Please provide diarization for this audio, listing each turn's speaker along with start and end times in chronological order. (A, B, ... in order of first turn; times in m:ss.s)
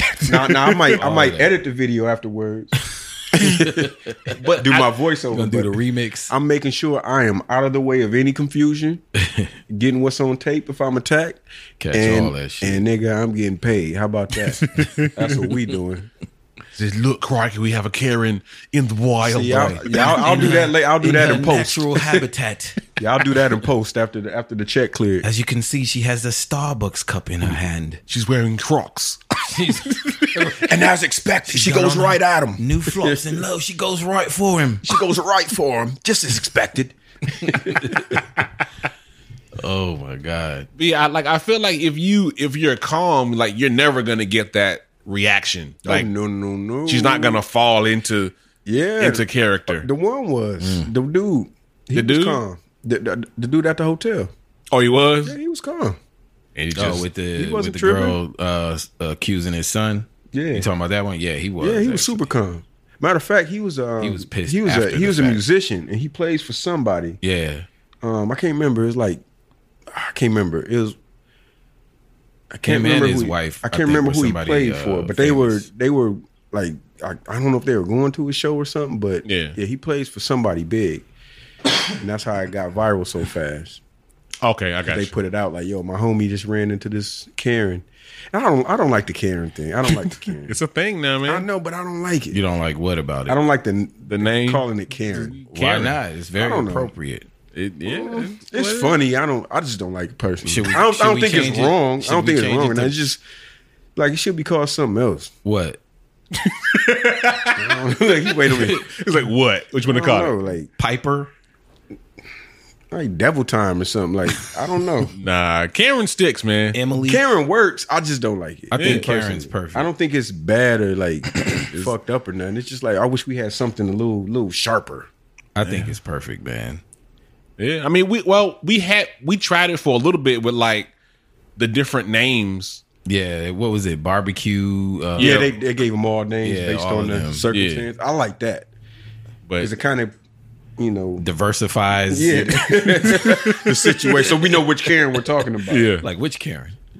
0:00.2-0:02.8 A
0:01.0-0:01.5 B
0:03.3-0:09.0 A
0:03.4-0:04.5 B
0:04.6-0:04.9 C
0:05.3-0:06.3 B
0:09.2-0:09.5 B
0:09.7-0:16.1 A
0:11.8-0:12.8 B
0:14.6-0:15.3 C
0:16.7-0:20.2 C
0:19.2-0:22.2 A
0:19.5-0:22.9 B
0:22.9-0:25.2 A
0:25.2-0:28.0 B
0:28.1-0:30.6 C
0:29.5-0:30.7 B
0:30.7-0:33.4 A
0:31.5-0:34.9 B
0:31.6-0:32.0 C
0:34.8-0:38.1 A
0:37.5-0:38.1 B
0:39.6-0:40.7 B
0:40.8-0:46.1 C
0:45.8-0:47.4 A
0:46.8-0:48.3 C
0:48.6-0:54.3 A
0:49.0-0:49.8 C
0:50.6-0:50.9 B
0:51.9-0:52.4 C
0:54.7-0:55.4 C
0:55.2-0:56.0 A
0:56.6-0:57.0 C
0:56.7-1:02.3 B
0:57.4-0:58.2 A
1:00.3-1:00.7 A
1:01.6-1:07.2 A
1:04.0-1:05.4 B
1:07.2-1:07.7 B
1:08.0-1:09.2 A
1:09.9-1:11.0 A
1:12.5-1:21.1 A
1:12.6-1:15.6 B
1:19.2-1:19.6 C
1:22.0-1:23.8 A
1:24.4-1:25.2 C
1:24.9-1:30.6 A
1:30.1-1:31.4 C
1:31.2-1:32.4 A
1:32.3-1:33.4 B
1:33.3-1:35.3 A
1:34.1-1:36.0 C
1:35.5-1:37.3 B
1:36.4-1:36.9 A
1:37.5-1:39.0 C
1:37.8-1:43.2 A
1:40.4-1:43.0 B
1:44.0-1:45.3 A
1:45.4-1:45.8 B
1:46.3-1:47.8 C
1:47.5-1:48.8 A
1:48.5-1:50.4 C
1:49.8-1:50.7 A
1:50.8-1:51.3 B
1:52.9-1:55.1 A
1:55.1-1:56.8 C
1:56.7-1:57.3 B
1:57.0-2:05.1 A
1:58.7-1:59.9 B
1:58.7-1:59.1 C
2:05.6-2:06.8 B
2:05.6-2:05.9 C
2:07.6-2:10.9 C
2:11.6-2:12.8 C
2:13.0-2:15.4 B
2:15.1-2:15.5 C
2:15.2-2:18.7 A
2:16.4-2:17.4 B
2:17.5-2:17.9 C
2:19.5-2:19.7 C
2:19.6-2:20.1 A
2:20.8-2:21.3 A
2:21.2-2:22.8 B
2:22.1-2:25.9 A
2:23.0-2:24.8 C
2:25.6-2:26.0 C
2:26.0-2:26.8 B